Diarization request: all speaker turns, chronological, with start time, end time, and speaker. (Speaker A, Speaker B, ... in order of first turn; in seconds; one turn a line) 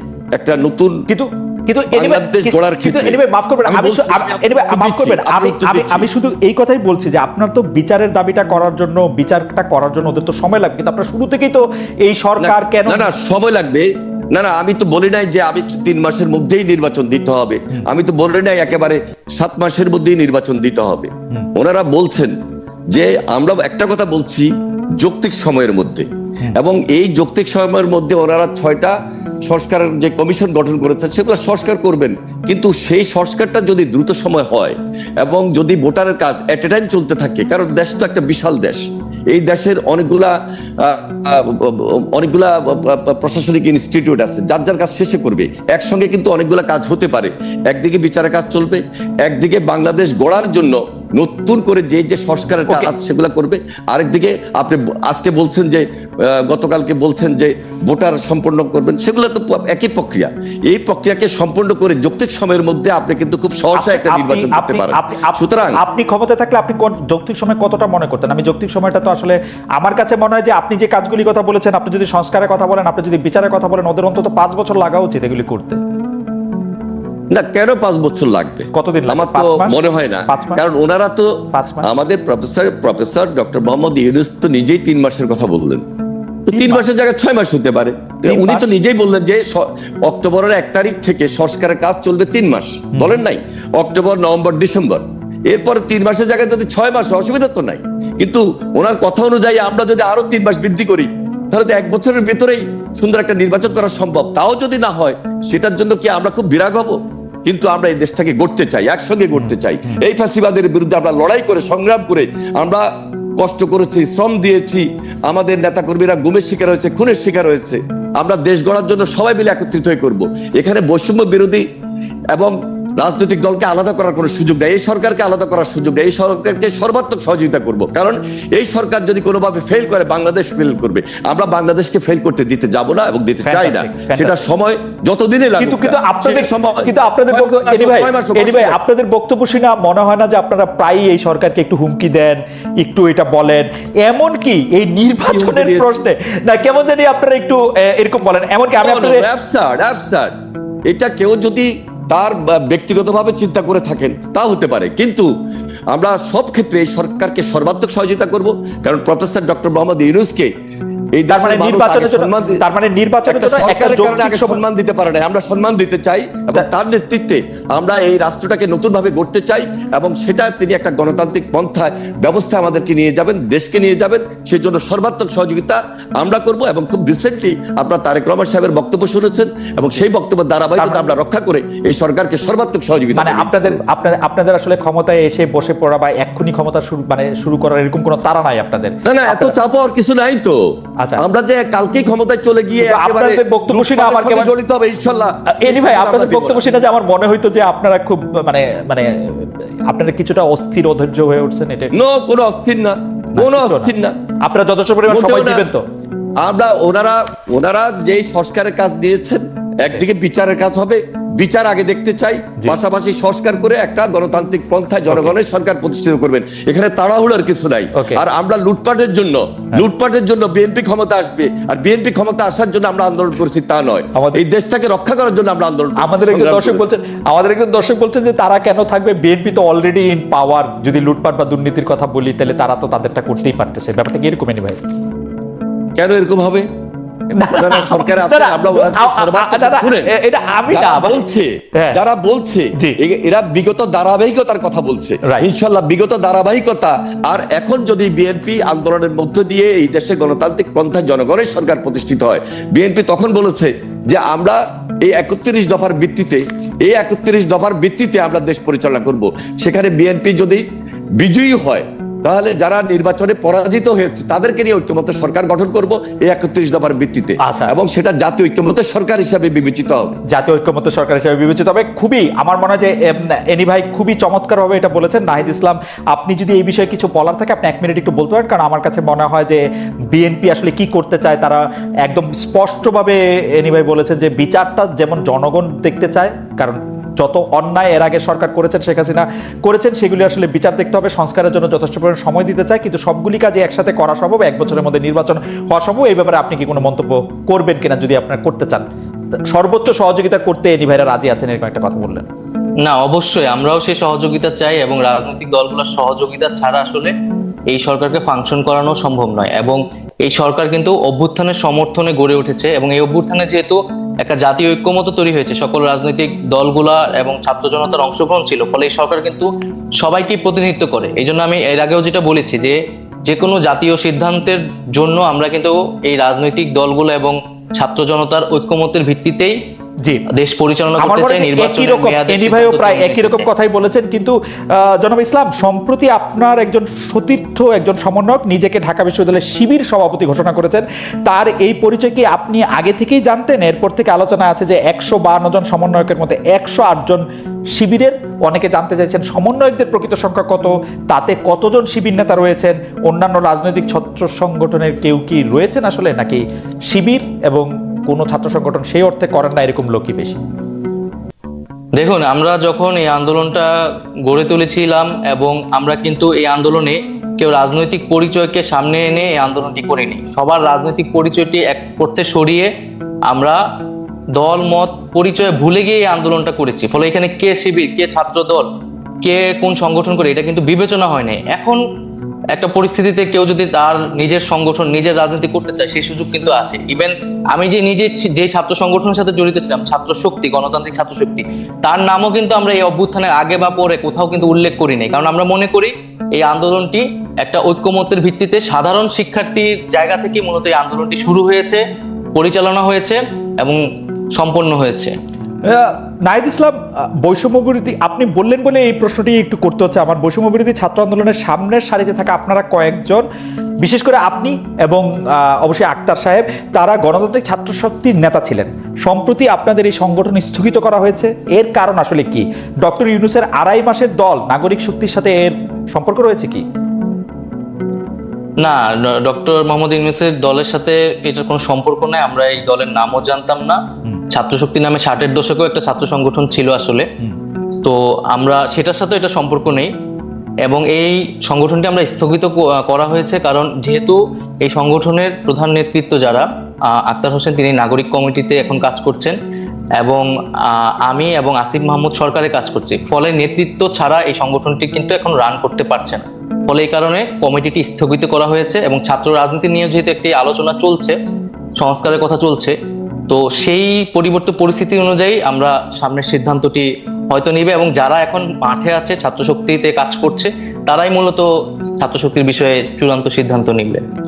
Speaker A: 0.3-1.1
Speaker B: 1.1-13.1
Speaker A: 1.9-6.1
Speaker A: 12.4-22.3
Speaker A: 22.9-29.0
Speaker A: 29.5-65.8
Speaker B: 52.7-52.9
Speaker B: 63.8-75.8
Speaker A: 77.3-85.8
Speaker B: 78.7-80.6
Speaker B: 81.5-81.9
Speaker A: 86.5-112.8
Speaker B: 86.5-86.8
Speaker B: 88.3-88.7
Speaker B: 109.3-110.0
Speaker A: 113.4-121.7
Speaker A: 122.3-138.8
Speaker B: 133.4-134.4
Speaker B: 135.6-149.2
Speaker A: 145.3-145.9
Speaker A: 148.8-150.3
Speaker A: 150.9-155.3
Speaker A: 155.9-160.5
Speaker A: 161.2-162.6
Speaker B: 161.3-164.6
Speaker A: 163.3-183.8
Speaker B: 180.8-181.1
Speaker B: 183.2-189.6
Speaker A: 189.0-190.6
Speaker A: 191.2-196.6
Speaker B: 192.8-194.5
Speaker B: 195.5-201.9
Speaker A: 201.9-204.2
Speaker B: 203.3-203.9
Speaker B: 204.4-205.8
Speaker A: 205.1-205.7
Speaker A: 206.4-226.9
Speaker B: 215.1-215.3
Speaker B: 218.0-218.2
Speaker B: 224.2-224.4
Speaker B: 226.0-234.8
Speaker A: 236.0-236.7
Speaker B: 237.3-241.2
Speaker A: 237.5-240.1
Speaker A: 240.7-260.6
Speaker A: 261.2-270.2
Speaker B: 267.5-267.7
Speaker B: 270.3-298.9
Speaker B: 299.5-302.2
Speaker C: 302.8-307.1
Speaker C: 307.7-329.6
Speaker C: 330.3-333.5
Speaker B: 331.0-347.2
Speaker B: 347.8-360.4
Speaker C: 361.9-363.7
Speaker C: 364.2-372.7
Speaker C: 373.3-373.6
Speaker C: 374.3-378.7
Speaker C: 379.2-381.8
Speaker C: 382.5-401.8
Speaker C: 402.4-403.8
Speaker C: 404.4-405.1
Speaker B: 405.6-413.2
Speaker B: 413.8-426.6
Speaker C: 428.6-433.8
Speaker C: 434.3-437.1
Speaker C: 437.8-439.9
Speaker C: 440.6-449.4
Speaker C: 449.9-461.1
Speaker C: 461.8-462.8
Speaker C: 463.3-471.5
Speaker C: 472.0-474.0